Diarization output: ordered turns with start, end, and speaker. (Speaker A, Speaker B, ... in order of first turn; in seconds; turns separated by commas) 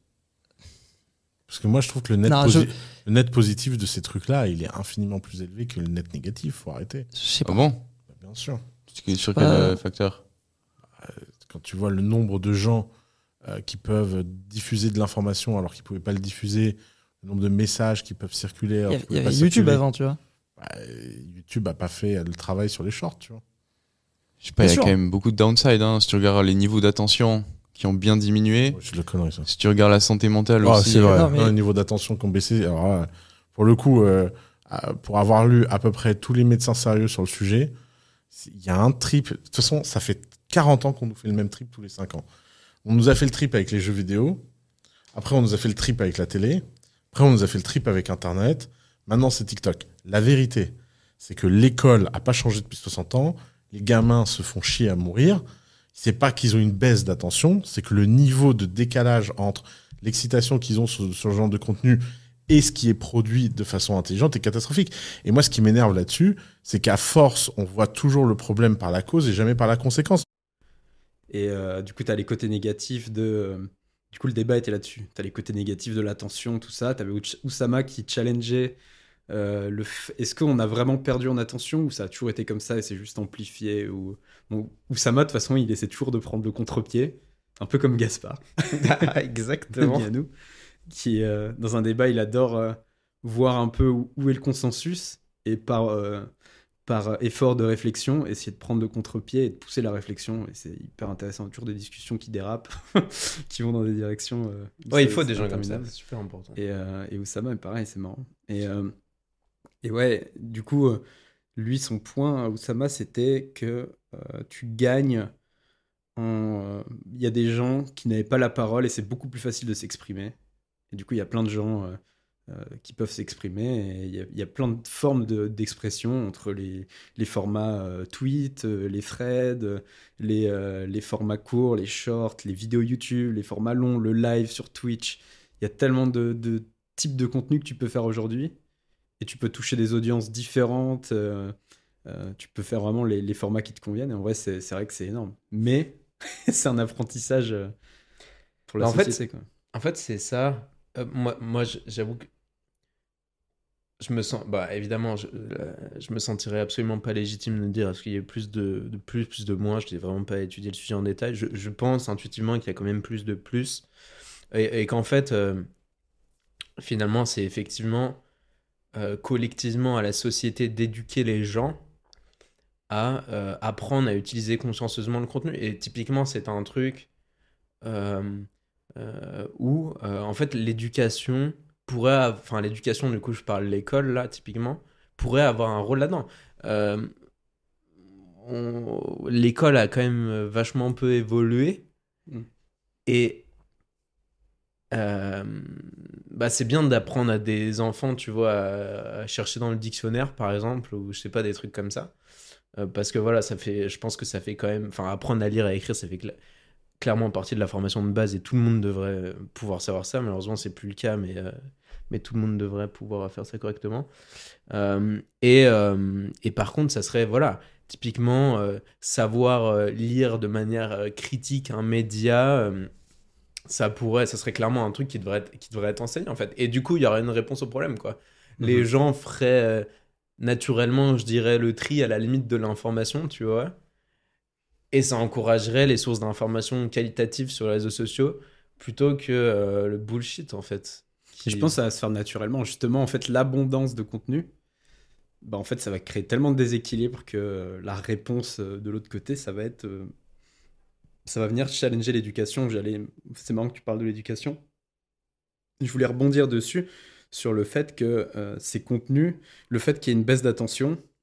Speaker A: 1.5-7.1, Speaker B: 2.3-2.7, Speaker B: 7.1-7.6, Speaker C: 7.4-7.8, Speaker A: 8.1-8.6, Speaker C: 8.9-10.2, Speaker B: 9.4-9.8, Speaker A: 11.0-12.9, Speaker A: 13.4-19.8, Speaker B: 18.9-20.2, Speaker A: 20.6-23.4, Speaker C: 24.4-28.8, Speaker B: 24.6-24.9, Speaker A: 28.8-29.5, Speaker C: 29.5-31.4, Speaker A: 30.6-37.7, Speaker B: 31.1-31.5, Speaker A: 38.3-42.3, Speaker A: 42.9-44.4, Speaker A: 45.1-55.4, Speaker A: 55.9-70.2, Speaker D: 71.3-78.8, Speaker D: 79.3-89.1, Speaker E: 88.7-90.1, Speaker D: 89.7-90.3, Speaker D: 90.9-96.3, Speaker D: 96.9-105.9, Speaker E: 104.9-106.6, Speaker D: 106.6-108.9, Speaker D: 109.8-111.0, Speaker D: 111.6-115.3, Speaker D: 116.2-120.4, Speaker D: 120.9-138.5, Speaker D: 139.2-141.6, Speaker D: 142.1-147.7, Speaker D: 148.7-149.4, Speaker E: 148.8-149.2, Speaker E: 149.7-152.3, Speaker E: 154.0-163.8, Speaker E: 164.5-165.7, Speaker E: 166.8-168.2, Speaker E: 169.0-171.8, Speaker E: 172.9-177.1, Speaker E: 177.8-187.1, Speaker E: 188.4-191.9, Speaker E: 193.1-193.5, Speaker E: 194.9-202.1, Speaker E: 202.8-206.3, Speaker E: 207.0-211.6, Speaker E: 212.1-214.1, Speaker E: 214.7-222.9, Speaker E: 223.7-229.9, Speaker D: 228.6-228.9, Speaker E: 230.4-233.7, Speaker E: 234.9-241.8, Speaker D: 241.4-244.5, Speaker D: 245.4-250.1, Speaker D: 251.3-254.6, Speaker D: 255.8-261.0